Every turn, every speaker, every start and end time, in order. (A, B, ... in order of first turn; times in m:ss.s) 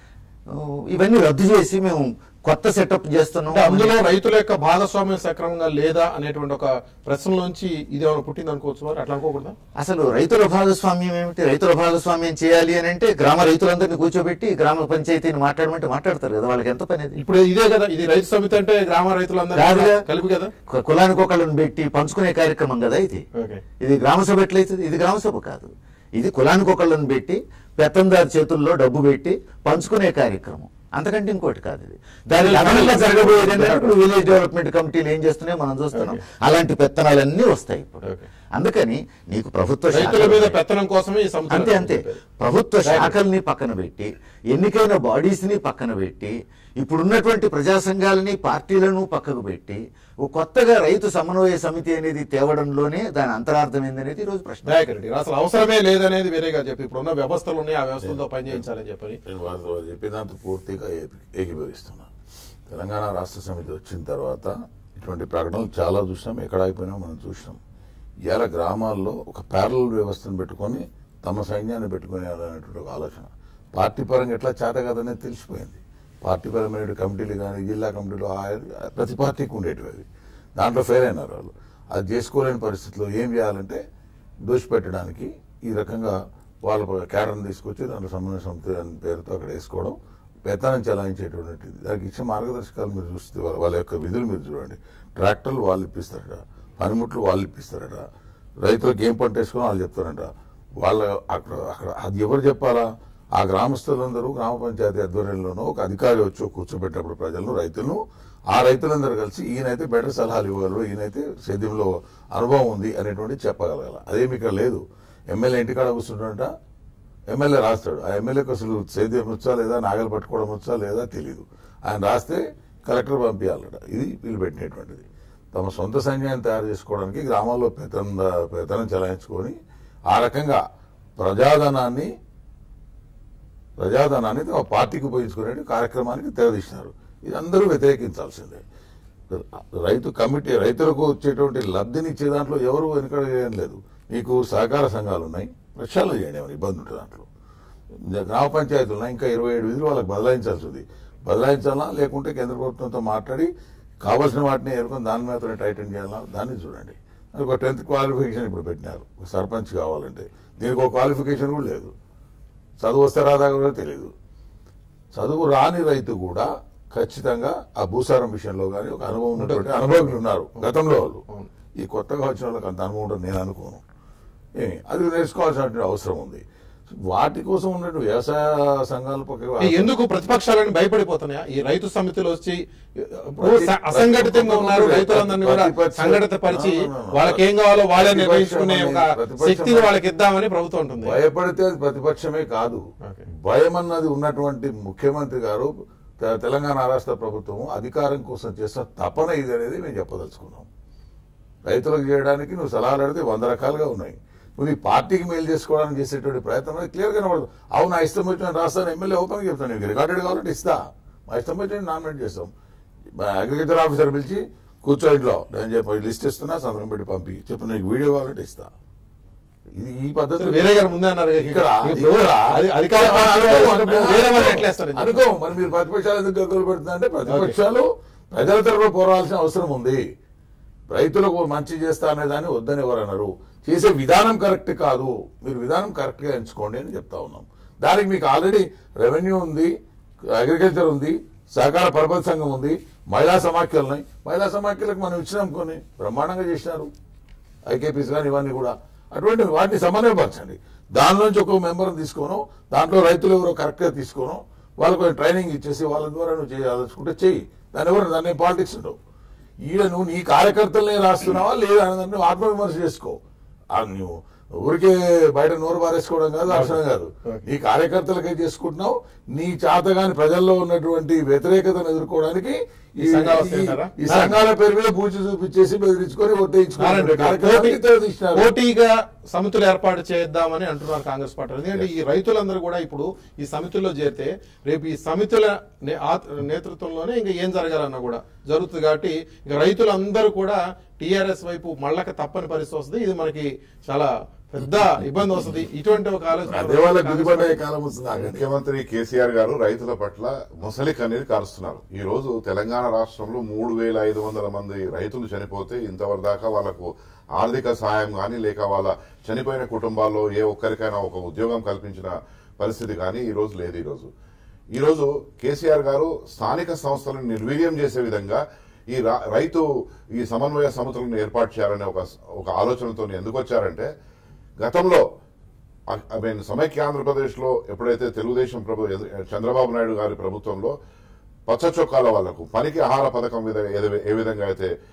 0:00.5-0:04.1 A
0:03.5-0:09.6 B
0:09.8-0:17.2 A
0:17.2-0:20.5 B
0:19.5-0:20.0 A
0:20.7-0:23.2 A
0:23.4-0:23.6 B
0:23.8-0:40.6 A
0:32.4-0:33.9 B
0:35.9-0:36.2 B
0:38.0-0:38.3 B
0:39.9-0:42.2 B
0:41.5-0:54.8 A
0:42.8-0:43.2 B
0:54.7-0:59.2 B
0:58.0-0:58.6 C
0:59.3-1:02.1 C
1:02.7-1:07.6 C
1:08.3-1:20.1 C
1:20.6-1:23.8 C
1:24.5-1:38.0 C
1:38.6-1:40.3 C
1:40.8-1:42.8 C
1:43.4-1:56.5 C
1:57.3-2:09.6 C
2:10.1-2:10.6 C
2:11.2-2:12.1 C
2:13.8-2:18.6 C
2:19.3-2:27.3 C
2:28.1-2:41.9 C
2:42.8-2:44.1 C
2:45.1-2:51.2 C
2:49.4-2:50.7 B
2:51.8-2:53.8 C
2:54.6-2:56.4 C
2:57.1-3:00.0 C
2:59.6-3:11.2 B
3:03.4-3:09.9 C
3:11.0-3:12.8 C
3:13.0-3:13.3 B
3:13.4-3:20.7 C
3:21.7-3:32.5 C
3:33.2-3:38.7 C
3:39.8-3:40.9 C
3:40.4-3:45.2 B
3:41.4-3:50.0 C
3:47.3-3:47.6 B
3:50.9-3:59.7 C
4:00.4-4:06.9 C
4:07.7-4:19.0 C
4:19.6-4:23.2 C
4:23.7-4:38.5 C
4:26.5-4:27.4 B
4:33.0-4:34.4 B
4:36.8-4:37.8 B
4:38.3-4:57.6 B
4:56.5-4:58.4 C
4:58.2-5:14.1 D
5:14.7-5:23.9 D
5:24.6-5:25.0 D
5:25.9-5:30.7 D
5:31.5-5:34.7 D